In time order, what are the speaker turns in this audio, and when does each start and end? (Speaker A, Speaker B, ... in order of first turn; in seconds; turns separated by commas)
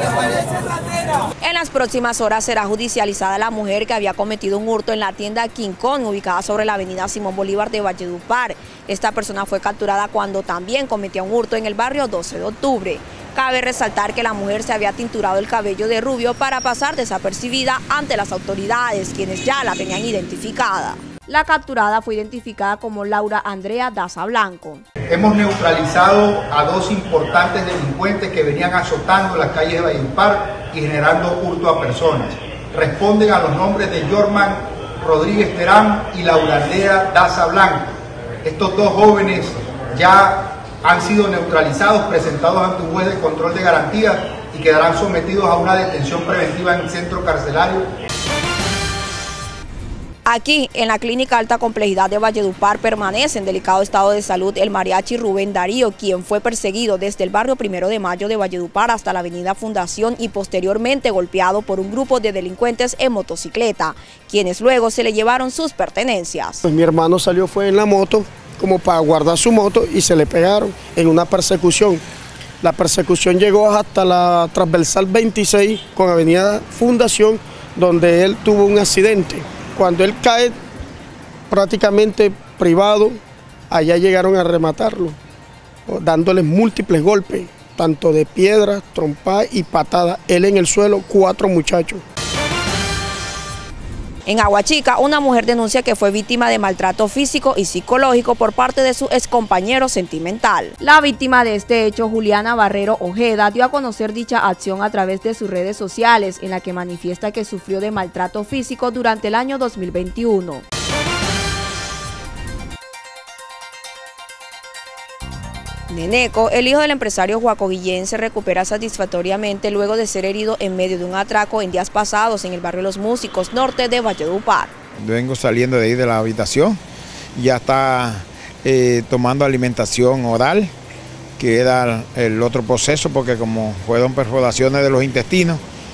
Speaker A: 1.4-24.8, Speaker B: 25.1-37.9, Speaker B: 38.4-47.9, Speaker A: 50.2-66.6, Speaker C: 66.6-72.0, Speaker C: 72.6-80.5, Speaker C: 81.5-83.2, Speaker C: 83.7-85.2, Speaker C: 85.9-92.0, Speaker A: 94.2-110.6, Speaker A: 115.9-124.7, Speaker D: 125.0-126.8, Speaker D: 127.3-130.7, Speaker D: 131.4-135.6